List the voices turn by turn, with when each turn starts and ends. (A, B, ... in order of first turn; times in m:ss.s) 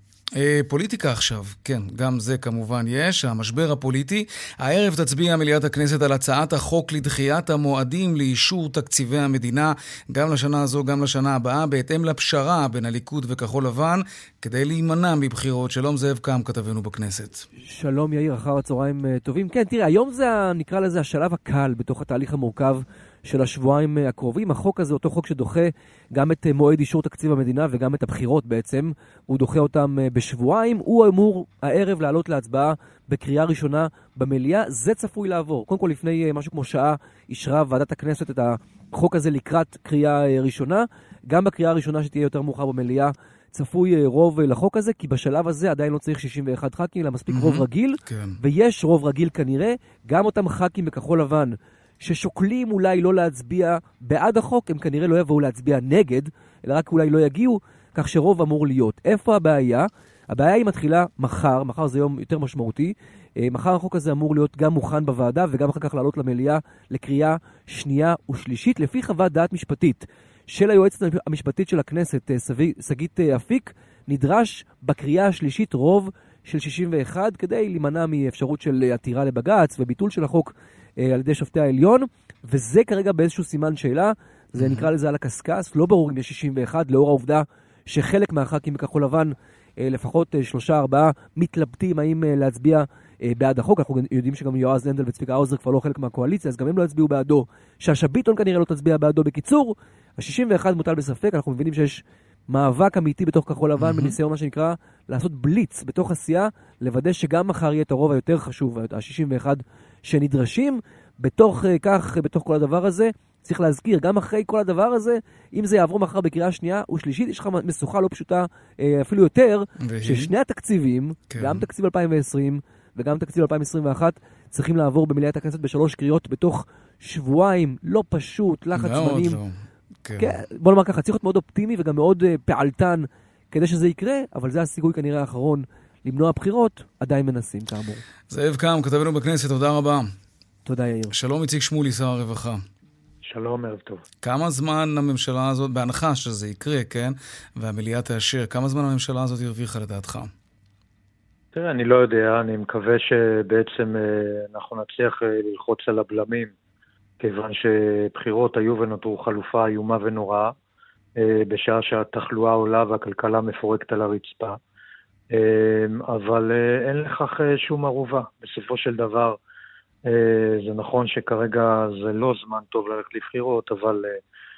0:00.3-0:17.4 A
0:17.6-2:09.4 B
0:47.3-0:48.4 A
1:24.6-1:24.9 A
1:43.8-1:44.1 A
1:59.8-2:00.3 A
2:01.3-2:01.6 A
2:08.7-2:10.3 A
2:10.2-2:18.0 B
2:18.3-2:20.1 A
2:20.6-2:21.1 B
2:21.1-2:22.6 A
2:23.2-2:24.0 C
2:24.2-2:30.3 A
2:31.5-2:36.5 C
2:37.2-2:40.5 C
2:41.2-2:44.6 C
2:45.3-2:49.4 C
2:50.0-2:54.2 C